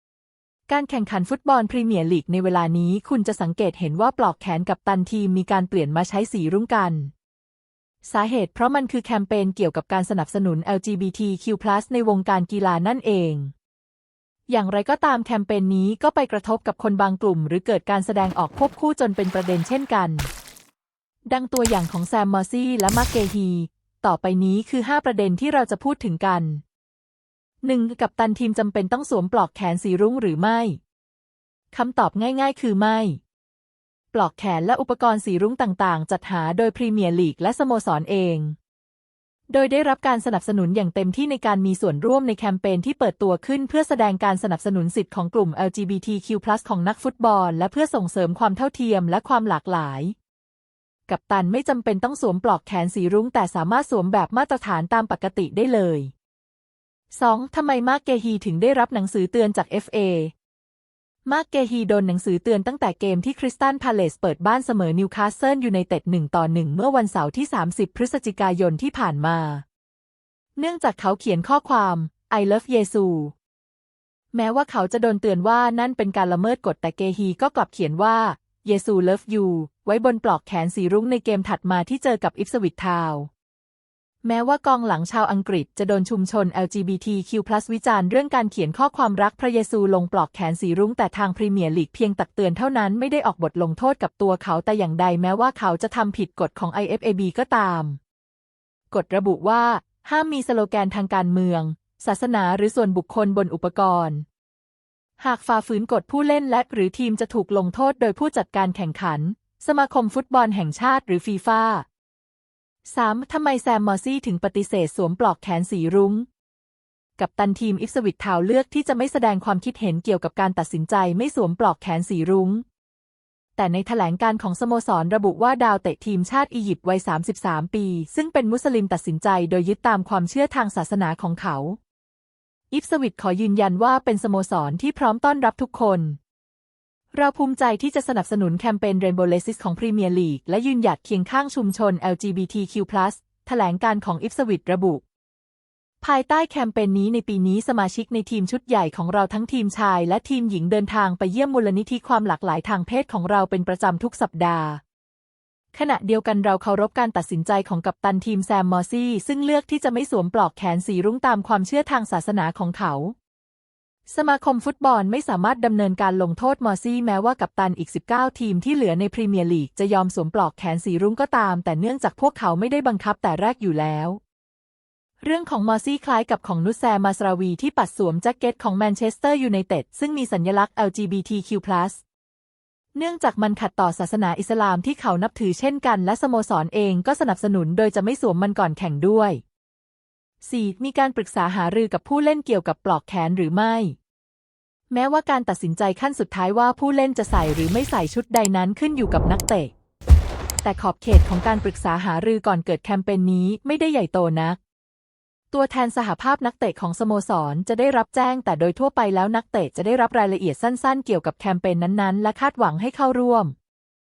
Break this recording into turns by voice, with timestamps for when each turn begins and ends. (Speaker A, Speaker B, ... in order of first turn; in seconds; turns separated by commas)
Speaker A: 0.7-7.1, Speaker A: 8.0-13.5, Speaker A: 14.5-20.3, Speaker A: 21.3-26.6, Speaker A: 27.6-30.8, Speaker A: 31.7-33.2, Speaker A: 34.1-38.6, Speaker A: 39.5-50.1, Speaker A: 51.1-56.1, Speaker A: 57.1-60.3, Speaker A: 61.3-69.6, Speaker A: 70.6-73.3, Speaker A: 74.3-83.3, Speaker A: 84.2-98.0, Speaker A: 98.9-104.2, Speaker A: 105.2-111.8, Speaker A: 112.9-116.3, Speaker A: 117.2-122.6, Speaker A: 123.6-131.8, Speaker A: 132.7-136.2, Speaker A: 137.1-145.0, Speaker A: 146.0-154.8, Speaker A: 155.7-163.2, Speaker A: 164.1-174.2, Speaker A: 175.2-182.0, Speaker A: 182.9-189.4, Speaker A: 190.4-194.0, Speaker A: 194.9-199.7, Speaker A: 200.6-204.6, Speaker A: 205.5-213.5